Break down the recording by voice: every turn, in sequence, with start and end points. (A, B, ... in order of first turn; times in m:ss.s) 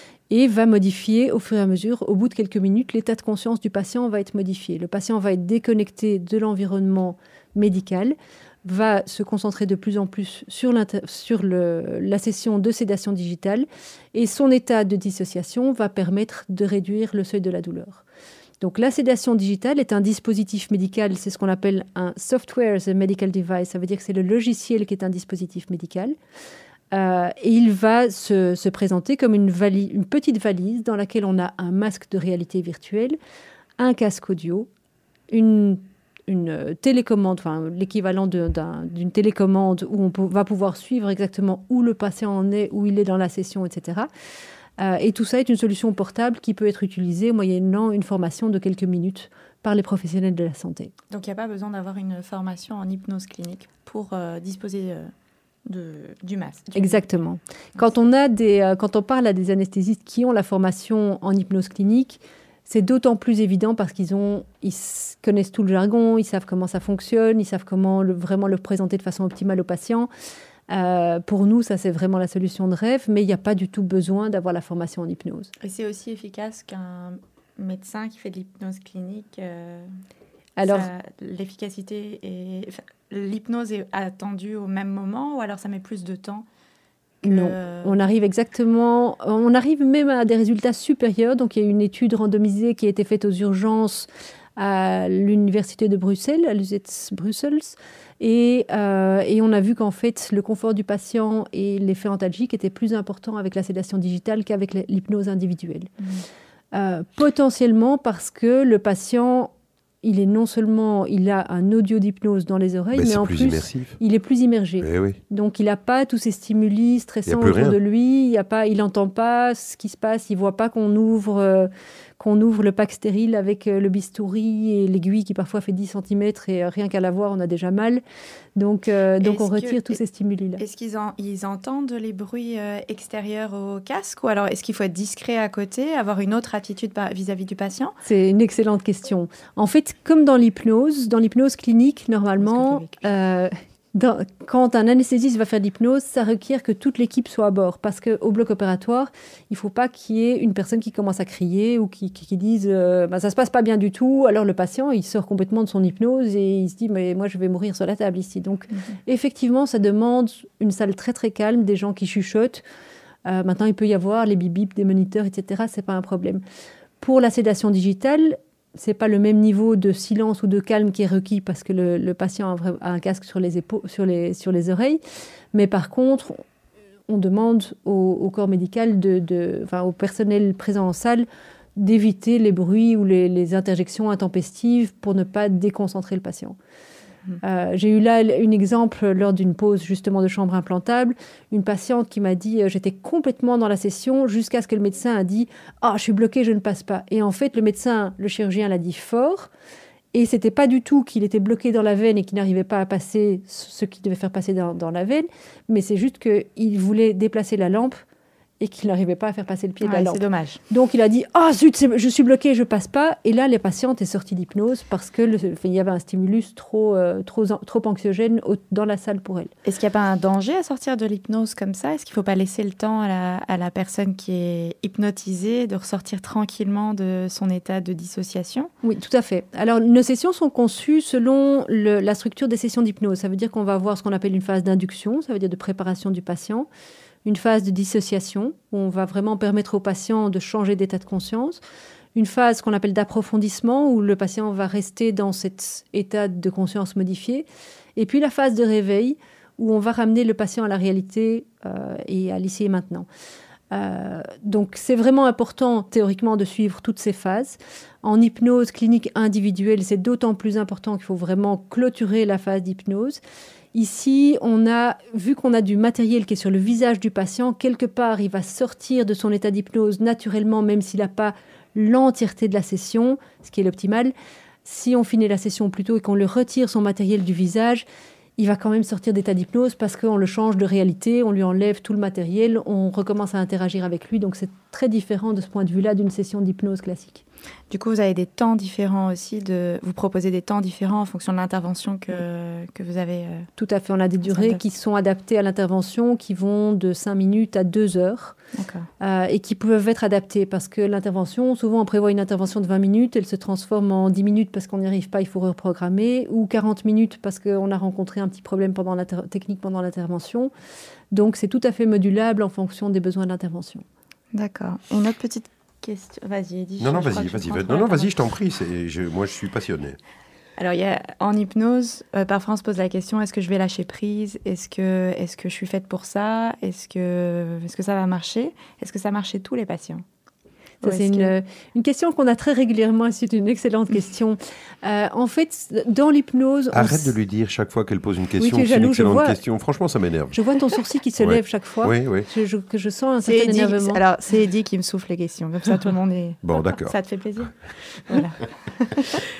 0:00.3-0:18.0 A
0:18.6-0:26.2 A
0:26.9-0:33.2 A
0:33.8-0:34.7 A
0:35.3-0:44.1 A
0:44.8-0:50.9 A
0:51.1-0:55.1 B
0:55.6-0:57.0 B
0:56.7-1:10.1 A
1:10.7-1:15.5 A
1:15.6-1:19.9 B
1:20.6-1:20.9 A
1:20.6-1:26.4 B
1:27.2-1:45.9 A
1:27.2-1:27.9 B
1:46.7-1:49.5 A
1:50.0-2:08.0 A
1:52.9-1:54.0 C
1:54.8-1:55.2 C
1:57.3-1:57.8 C
2:08.6-2:10.6 A
2:09.2-2:10.0 B
2:10.6-2:17.9 B
2:18.0-2:42.6 A
2:22.4-2:23.0 B
2:43.2-2:46.4 A
2:47.0-2:55.0 A
2:55.5-2:56.4 A
2:57.1-3:06.6 A
3:07.4-3:19.5 A
3:20.1-3:28.0 A
3:28.6-3:39.5 A
3:29.8-3:30.6 B
3:39.6-3:48.7 B
3:48.8-3:56.7 A
3:57.2-4:01.6 A
4:02.1-4:13.1 A
4:13.7-4:23.2 A
4:23.7-4:34.1 A
4:34.6-4:37.8 A
4:38.4-4:47.2 A
4:47.7-4:53.5 B
4:53.6-4:58.4 A
4:54.3-4:54.6 B
4:58.6-4:58.9 B
4:59.0-5:10.5 A
5:11.1-5:13.8 A
5:14.3-5:18.1 B
5:16.8-5:20.0 C
5:20.6-5:30.0 B
5:30.8-5:31.3 B
5:30.8-5:37.1 A
5:36.7-5:40.3 C
5:38.4-5:39.4 A
5:40.3-5:44.0 A
5:41.2-5:42.3 C
5:43.2-5:47.5 B
5:46.4-5:46.9 C
5:48.1-5:49.2 B